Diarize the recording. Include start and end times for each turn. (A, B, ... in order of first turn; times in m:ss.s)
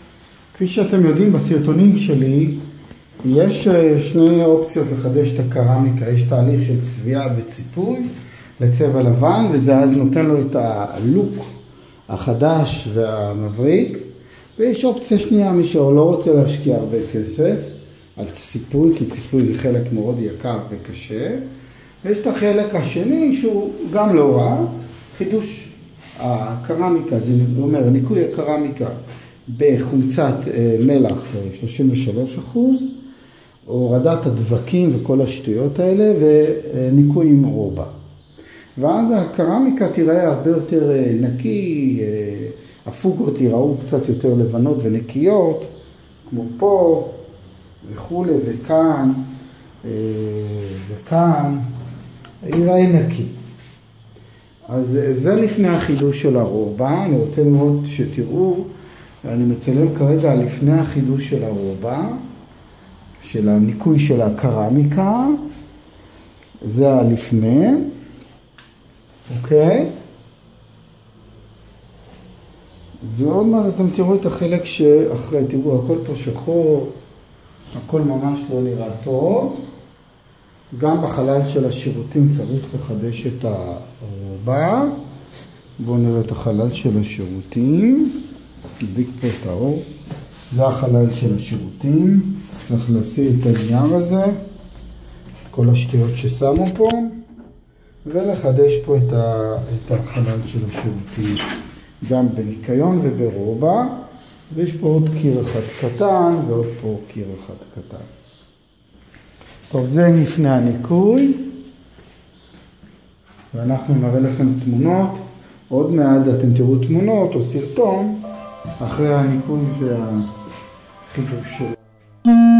0:00.5-0:02.6 A
0:03.2-0:11.5 A
0:12.1-0:14.0 A
0:14.6-0:21.4 A
0:22.0-0:32.9 A
0:33.6-0:37.9 A
0:38.8-0:45.7 A
0:46.3-0:47.1 A
0:47.8-0:49.2 A
0:49.8-0:51.6 A
0:52.4-0:53.3 A
0:54.7-0:58.7 A
0:59.2-1:02.2 A
1:03.2-1:05.4 A
1:06.6-1:07.9 A
1:09.3-1:09.9 A
1:13.0-1:17.0 A
1:17.7-1:19.6 A
1:20.7-1:25.0 A
1:25.8-1:28.2 A
1:28.8-1:29.8 A
1:30.5-1:34.4 A
1:35.5-1:37.2 A
1:38.0-1:41.4 A
1:42.0-1:48.1 A
1:49.7-1:51.5 A
1:53.5-1:58.2 A
1:58.8-2:00.3 A
2:01.1-2:01.8 A